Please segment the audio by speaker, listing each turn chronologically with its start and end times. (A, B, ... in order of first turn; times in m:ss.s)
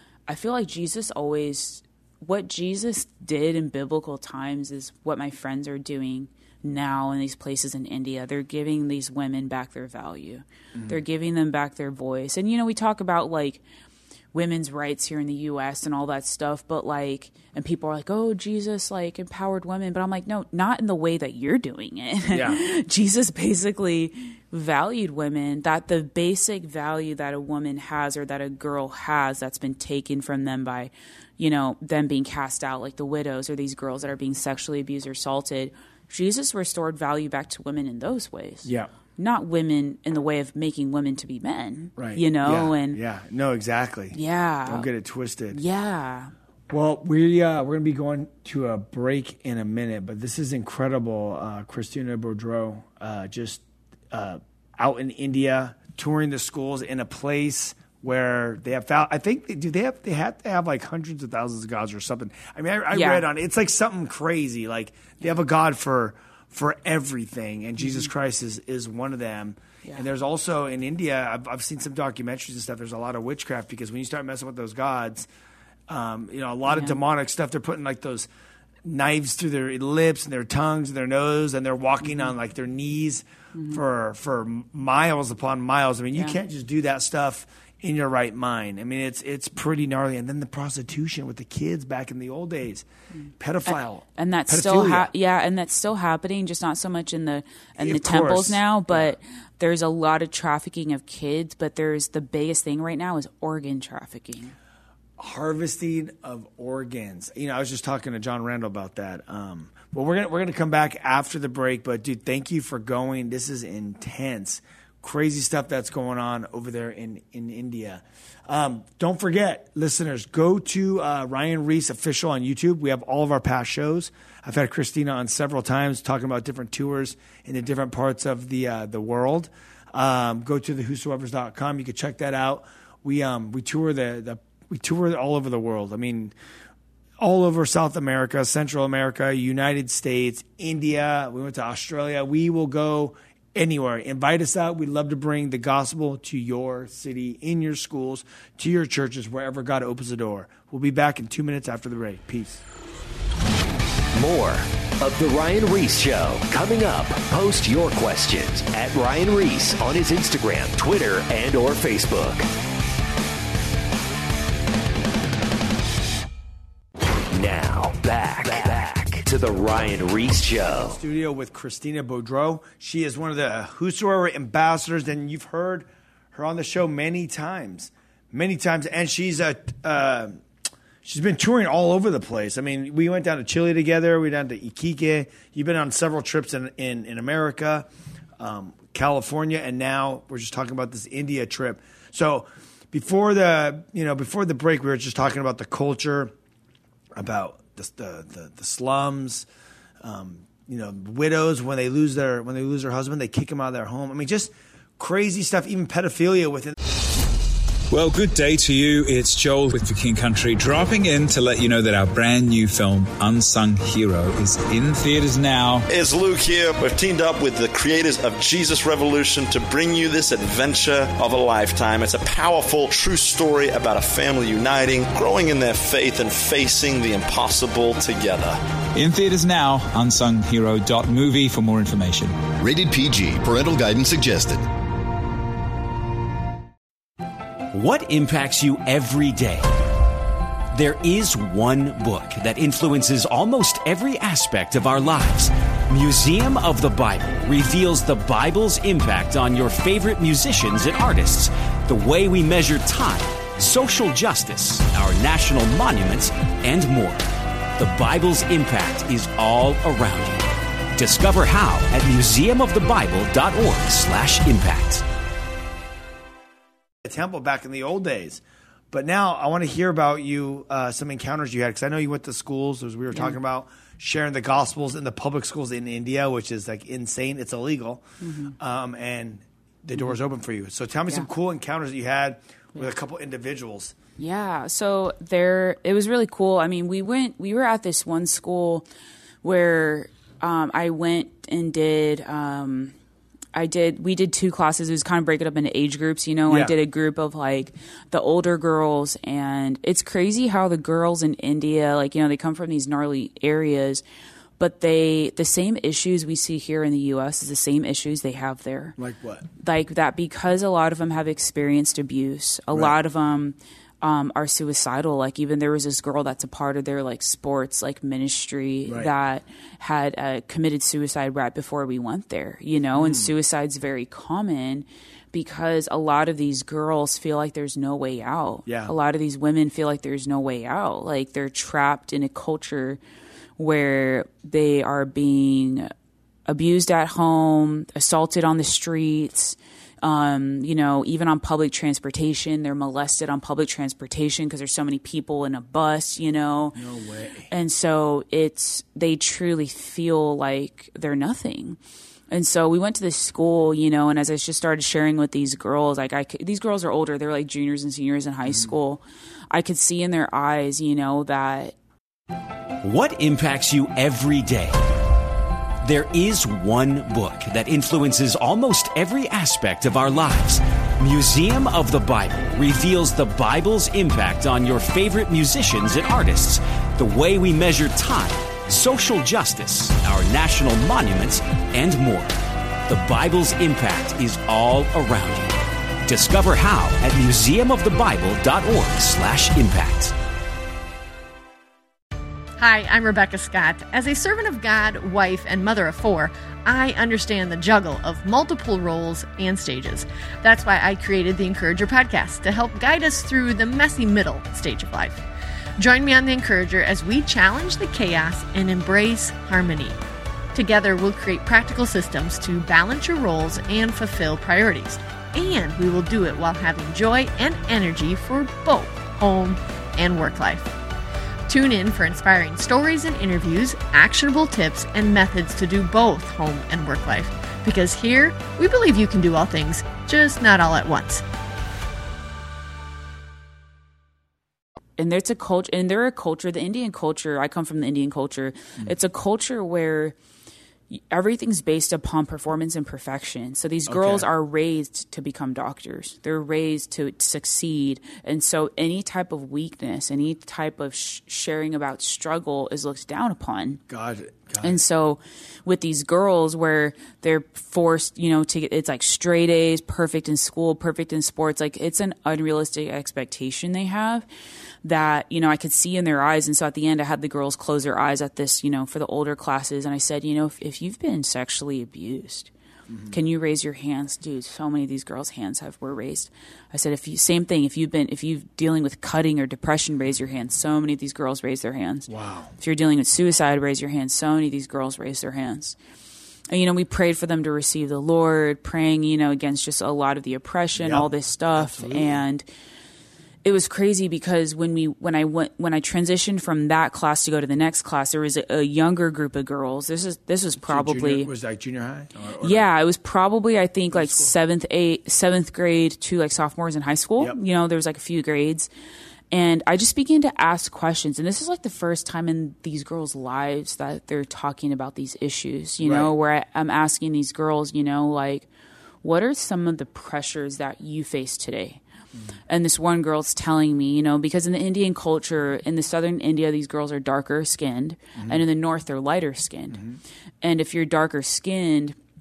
0:00.3-0:13.6 A
0:10.7-0:11.0 B
0:14.3-0:43.0 A
0:22.3-0:22.6 B
0:38.6-0:38.9 B
0:42.0-0:45.6 B
0:44.1-0:44.9 A
0:45.5-0:46.3 A
0:46.7-1:15.3 B
1:02.9-1:03.2 A
1:07.8-1:08.1 A
1:15.9-1:18.3 B
1:16.7-1:17.0 A
1:18.8-1:32.9 B
1:23.5-1:23.8 A
1:33.2-1:44.5 A
1:33.4-1:35.1 B
1:37.8-1:39.2 B
1:45.2-2:16.3 B
2:17.2-2:32.6 B
2:34.1-2:42.5 C
2:47.3-2:51.0 C
2:50.9-3:00.4 B
3:01.0-3:07.9 B
3:08.4-3:16.3 B
3:17.1-3:19.5 B
3:20.0-3:26.7 B
3:27.9-3:35.8 D
3:35.9-3:48.6 E
3:49.0-3:52.4 D
3:52.6-3:54.6 F
3:57.7-3:59.7 G
4:00.7-4:25.0 G
4:27.0-4:43.9 B
4:38.2-4:38.5 A
4:44.2-4:48.9 A
4:49.4-4:52.9 A
4:53.5-5:04.0 A
4:56.5-4:56.8 B
5:04.6-5:09.0 A
5:09.0-5:09.5 B
5:09.6-5:33.0 A
5:18.8-5:19.1 B
5:23.0-5:23.3 B
5:28.6-5:28.9 B
5:33.6-5:35.9 A
5:36.5-5:46.8 A
5:46.8-5:47.5 B
5:47.5-5:51.8 A
5:52.3-6:01.7 A
6:02.8-6:04.8 G
6:05.8-6:25.5 G
6:26.0-6:30.1 G
6:32.6-6:45.2 H
6:45.8-6:50.0 H
6:50.5-7:00.7 H
7:01.5-7:11.2 H
7:15.0-7:20.2 A
7:20.9-7:33.8 A
7:23.9-7:24.3 B
7:33.9-7:34.8 B
7:34.6-7:44.2 A
7:44.8-7:52.5 A
7:52.9-7:53.2 B
7:53.1-8:05.8 A
8:02.1-8:02.5 B
8:06.5-8:12.4 A
8:10.8-8:12.2 B
8:13.4-8:21.3 A
8:20.6-8:22.6 B
8:22.4-8:28.7 A
8:23.9-8:24.3 B
8:29.3-8:38.5 A
8:35.8-8:36.1 B
8:39.0-8:41.8 A
8:42.5-8:49.8 A
8:50.4-8:52.0 A